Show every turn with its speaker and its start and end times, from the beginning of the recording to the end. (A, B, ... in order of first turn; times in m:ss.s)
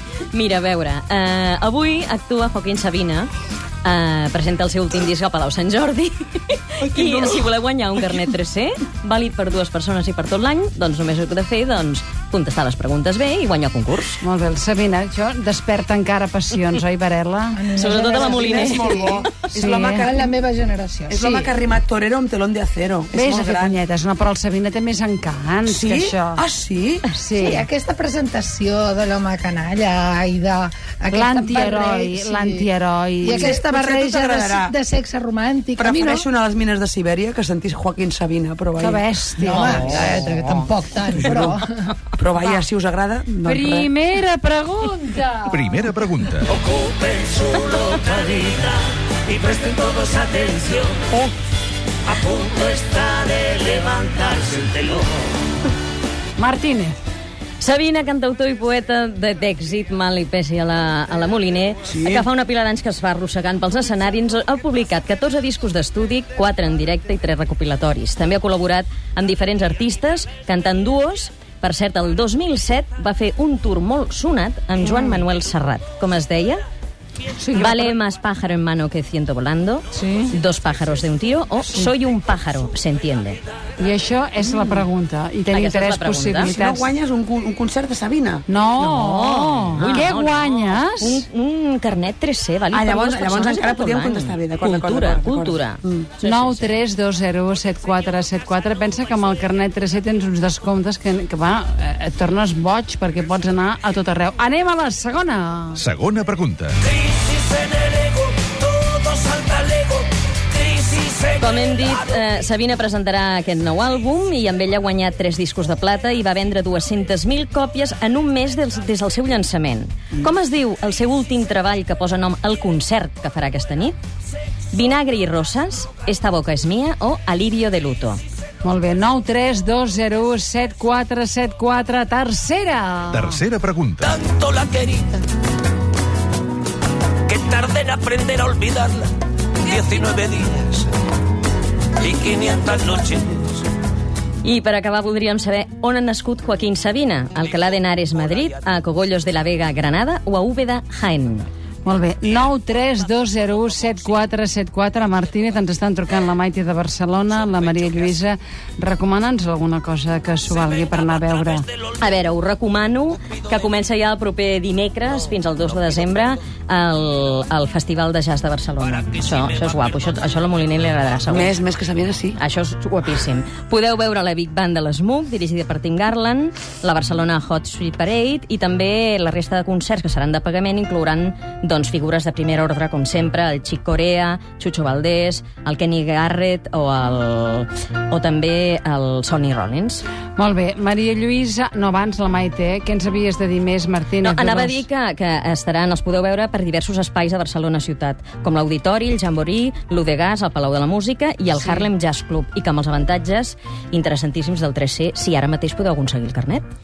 0:00.2-0:03.3 A
0:03.8-0:14.2 A
0:06.8-0:07.4 B
0:14.2-0:17.7 C
0:17.6-0:21.5 D
0:17.7-0:18.9 A
0:18.4-0:20.3 B
0:19.5-0:20.0 C
0:21.1-0:23.8 B
0:23.1-0:26.4 C
0:25.7-0:27.1 B
0:27.1-0:27.7 C
0:27.3-0:32.7 D
0:31.1-0:33.6 C
0:33.2-0:36.3 D
0:33.3-0:34.8 B
0:35.8-0:39.0 B
0:38.8-0:40.0 C
0:39.4-0:41.7 D
0:39.9-0:41.6 B
0:42.2-0:43.9 B
0:43.4-0:45.6 C
0:45.5-0:46.8 E
0:47.6-0:48.0 F
0:47.8-0:48.8 B
0:49.4-0:50.7 F
0:51.1-0:51.3 B
0:53.8-0:54.2 F
0:56.4-0:57.0 C
0:57.6-1:16.6 A
1:01.9-1:02.3 B
1:17.5-1:17.9 B
1:17.5-1:23.4 A
1:23.8-1:26.9 C
1:24.5-1:24.8 A
1:25.5-1:26.5 A
1:26.4-1:28.4 B
1:28.5-1:31.2 C
1:28.8-1:36.8 A
1:32.7-1:36.1 B
1:36.2-1:45.8 C
1:45.8-1:46.8 E
1:51.1-2:04.0 A
2:04.7-2:08.2 A
2:08.6-2:13.4 C
2:13.1-2:14.3 E
2:19.7-2:20.1 F
2:22.2-2:23.3 F
2:24.4-2:31.5 A
2:31.8-2:41.7 C
2:42.0-2:51.6 A
2:51.3-2:52.4 B
2:52.4-3:10.0 A
3:10.4-3:14.9 C
3:14.2-3:26.6 A